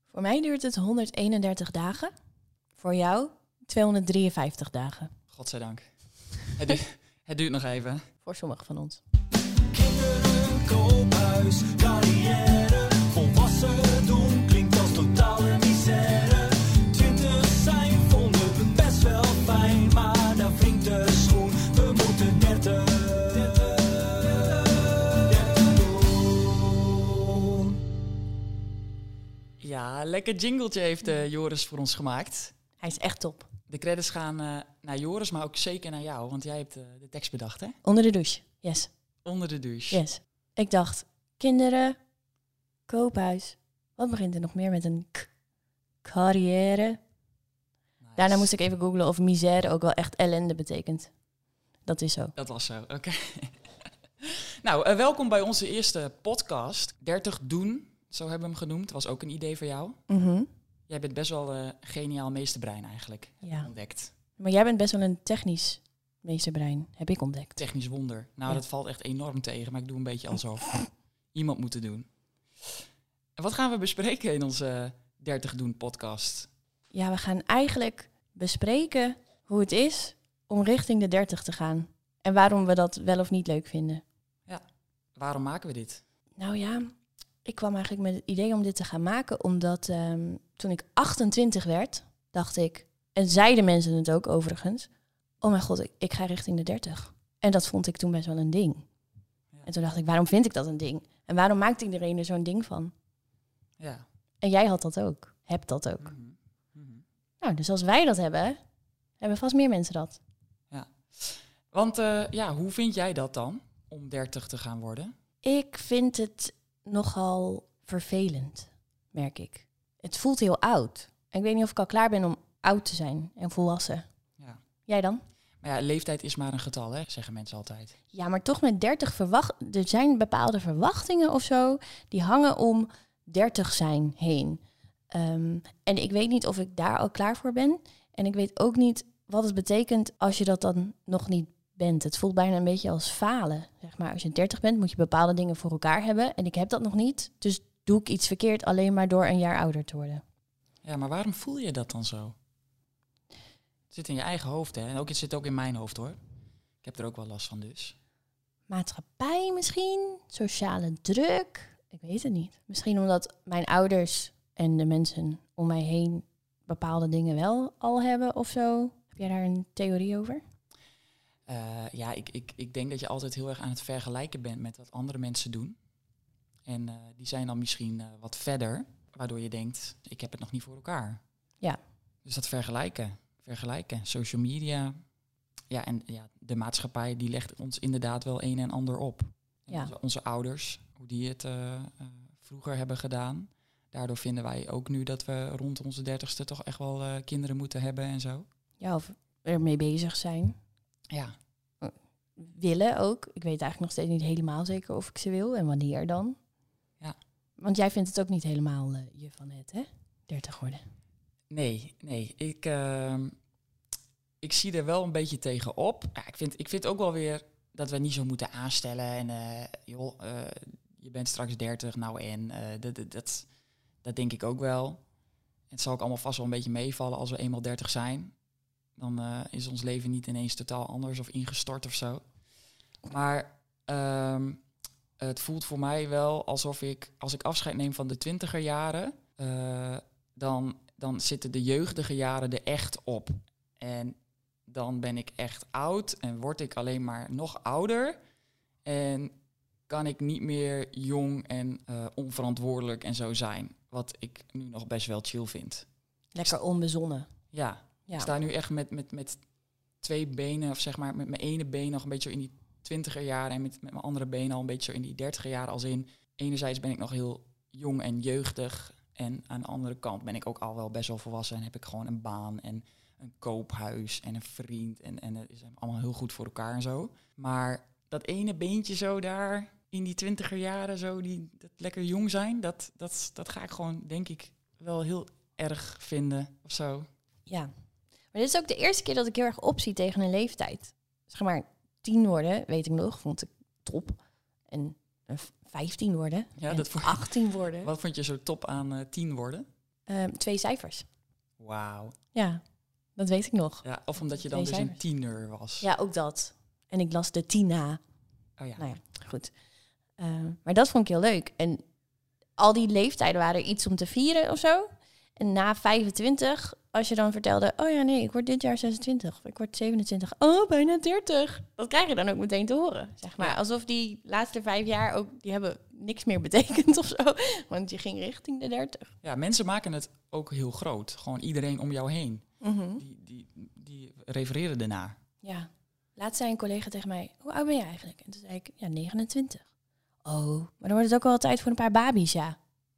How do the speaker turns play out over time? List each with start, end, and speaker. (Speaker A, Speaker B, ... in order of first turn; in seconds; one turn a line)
Speaker A: 0.1-2.1
Speaker A: 2.8-5.1
Speaker B: 5.3-8.1
Speaker A: 8.2-9.0
Speaker C: 9.7-27.8
Speaker B: 29.6-32.5
Speaker A: 32.8-33.5
Speaker B: 33.7-37.8
Speaker A: 37.9-38.9
Speaker B: 39.2-40.0
Speaker A: 39.9-42.0
Speaker A: 42.9-45.3
Speaker A: 46.0-47.0
Speaker B: 48.0-48.5
Speaker A: 48.2-51.1
Speaker A: 51.9-52.4
Speaker B: 52.4-53.6
Speaker B: 54.2-60.0
Speaker A: 60.1-60.5
Speaker B: 60.9-64.1
Speaker A: 63.4-63.7
Speaker A: 64.4-67.6
Speaker B: 67.6-70.7
Speaker B: 71.3-72.1
Speaker B: 73.4-76.5
Speaker A: 76.9-84.0
Speaker B: 85.2-86.0
Speaker A: 86.4-86.9
Speaker A: 87.4-94.9
Speaker A: 95.4-98.9
Speaker A: 99.7-102.9
Speaker B: 103.8-104.0
Speaker A: 104.4-106.1
Speaker B: 106.0-107.0
Speaker A: 107.4-108.6
Speaker A: 109.2-110.2
Speaker B: 110.7-115.1
Speaker A: 115.4-124.0
Speaker A: 124.9-125.2
Speaker B: 125.6-128.0
Speaker A: 128.1-150.2
Speaker B: 150.8-152.4
Speaker B: 153.9-156.2
Speaker B: 156.8-158.0
Speaker A: 158.7-170.4
Speaker B: 171.5-175.8
Speaker B: 176.7-181.2
Speaker B: 182.2-185.0
Speaker B: 185.7-198.5
Speaker A: 198.8-200.6
Speaker A: 201.8-206.4
Speaker A: 207.6-210.8
Speaker B: 211.5-213.4
Speaker B: 214.4-223.5
Speaker B: 224.0-225.0
Speaker B: 225.7-228.3
Speaker B: 229.0-232.3
Speaker B: 233.1-234.6
Speaker B: 235.2-244.2
Speaker B: 244.7-248.2
Speaker B: 248.8-249.3
Speaker B: 249.9-255.9
Speaker A: 256.3-257.3
Speaker B: 257.5-259.4
Speaker A: 258.1-258.3
Speaker B: 260.0-287.1
Speaker A: 288.3-297.9
Speaker B: 296.6-299.7
Speaker A: 300.1-301.1
Speaker B: 301.6-302.1
Speaker A: 302.3-302.6
Speaker A: 303.2-305.0
Speaker B: 303.8-305.9
Speaker A: 305.8-308.0
Speaker B: 308.6-308.9
Speaker A: 308.8-309.5
Speaker A: 310.2-311.8
Speaker A: 312.6-329.1
Speaker B: 329.2-332.4
Speaker A: 332.6-333.0
Speaker B: 333.0-335.2
Speaker A: 335.4-339.7
Speaker A: 340.2-342.6